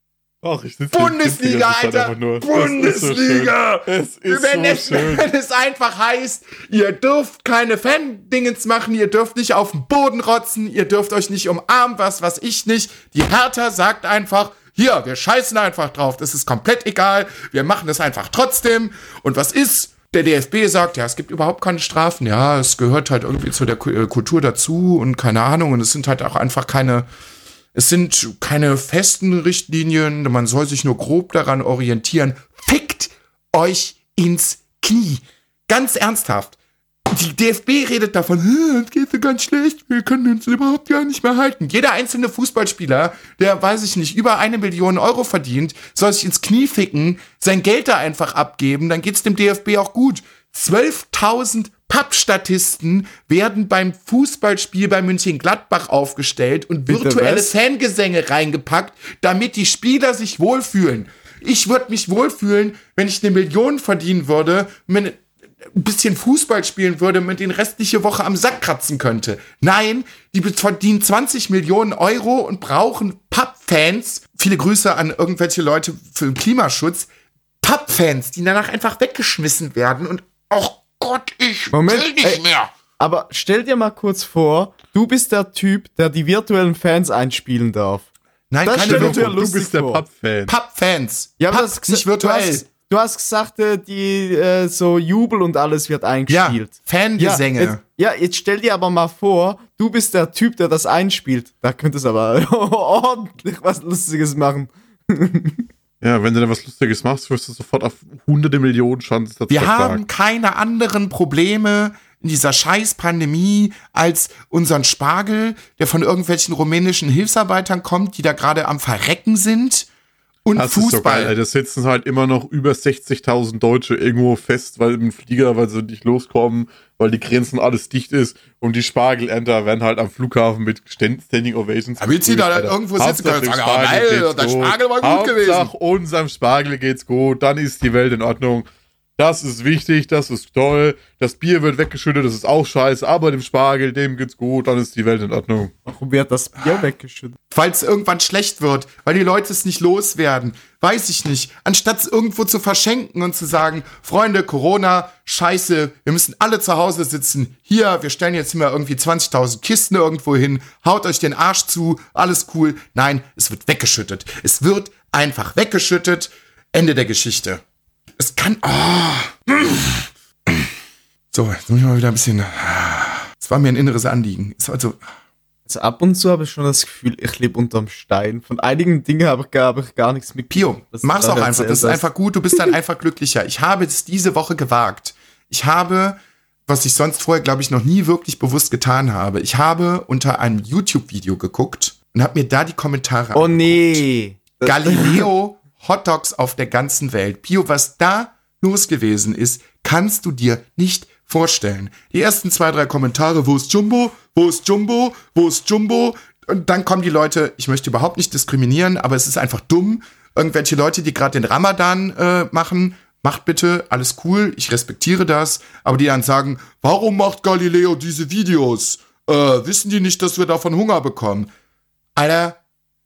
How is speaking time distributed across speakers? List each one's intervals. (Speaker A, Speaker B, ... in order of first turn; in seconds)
Speaker A: 0.4-5.3, 88.8-90.5, 106.0-110.0, 120.5-138.7, 139.2-145.7
Speaker B: 0.9-27.1, 27.7-36.5, 37.1-77.1, 77.6-82.7, 88.5-89.4, 90.5-92.6, 96.3-97.8, 109.5-119.9, 120.4-121.3, 132.0-135.7, 147.5-167.6, 168.2-170.7, 171.3-175.0, 180.5-194.0, 194.6-221.5, 222.2-222.6
Speaker C: 56.9-57.5, 81.7-82.4, 83.0-88.0, 88.6-90.0, 91.4-105.7, 145.8-147.3, 175.7-182.0, 193.3-195.3